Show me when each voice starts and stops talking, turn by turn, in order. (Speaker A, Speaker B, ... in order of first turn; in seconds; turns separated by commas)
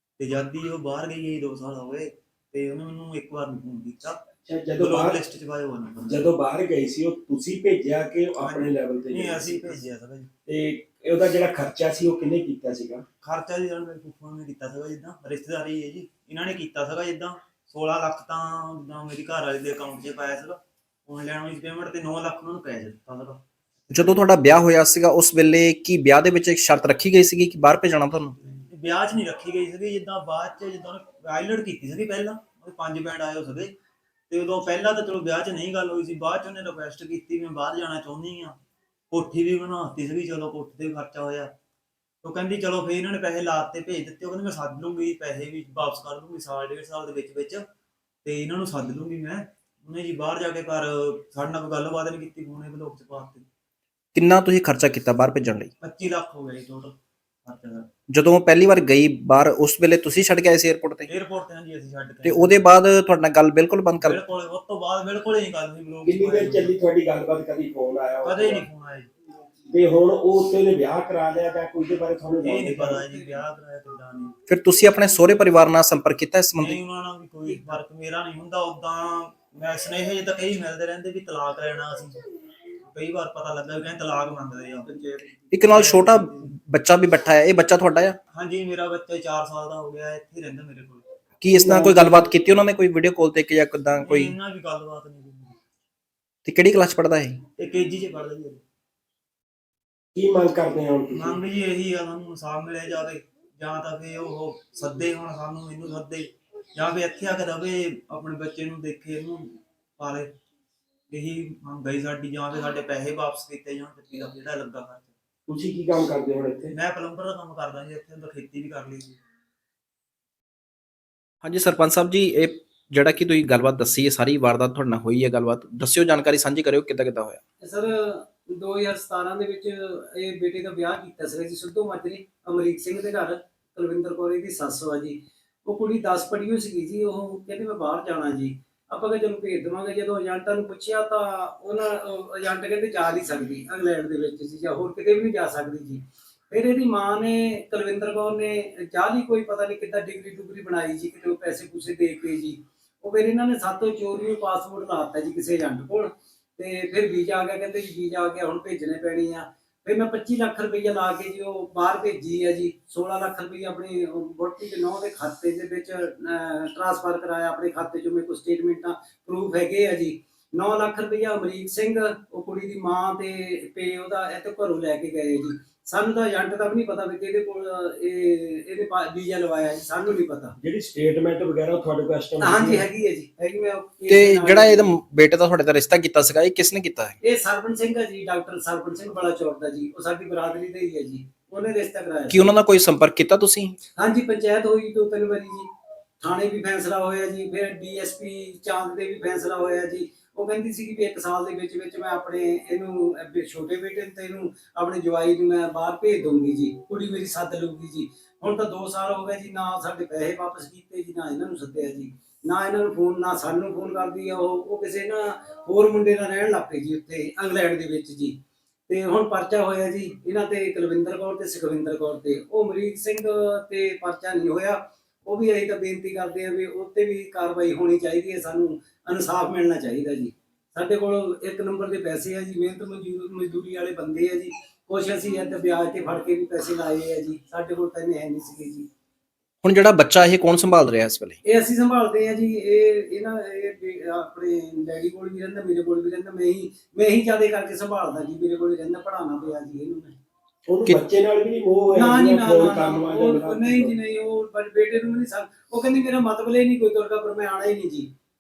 Speaker A: 0.2-4.2, Speaker B: 4.4-5.2, Speaker A: 4.8-6.3, Speaker B: 6.1-9.8, Speaker A: 8.4-10.3, Speaker B: 10.5-13.0, Speaker A: 13.2-23.4, Speaker C: 23.9-28.4, Speaker A: 28.7-33.7, Speaker A: 34.3-38.6, Speaker A: 39.1-41.5, Speaker A: 42.2-47.6, Speaker A: 48.2-53.5, Speaker C: 54.1-55.7, Speaker A: 55.8-57.9, Speaker C: 58.1-61.1, Speaker A: 61.1-62.7, Speaker C: 62.2-64.2, Speaker A: 64.0-66.8, Speaker B: 66.0-68.7, Speaker A: 68.2-69.1, Speaker B: 69.7-73.0, Speaker A: 72.4-74.3, Speaker C: 74.5-76.8, Speaker A: 76.6-82.2, Speaker A: 82.8-84.9, Speaker D: 84.9-85.4, Speaker C: 85.5-88.2, Speaker A: 85.7-86.5, Speaker A: 88.3-91.1, Speaker C: 91.4-94.3, Speaker B: 91.5-92.3, Speaker A: 93.9-95.6, Speaker C: 96.5-97.4, Speaker A: 97.6-98.6, Speaker B: 100.2-101.4, Speaker A: 101.1-110.3, Speaker A: 111.1-115.2, Speaker B: 115.5-116.7, Speaker A: 116.7-119.2, Speaker C: 121.4-127.4, Speaker D: 127.6-180.6, Speaker B: 180.6-182.9, Speaker D: 182.4-184.9, Speaker C: 184.1-187.2, Speaker D: 187.2-192.5, Speaker C: 192.3-193.8, Speaker D: 194.0-195.7, Speaker D: 196.2-218.3, Speaker D: 218.9-238.9, Speaker C: 239.6-241.4, Speaker D: 241.4-250.2, Speaker B: 250.7-254.0, Speaker D: 251.9-258.1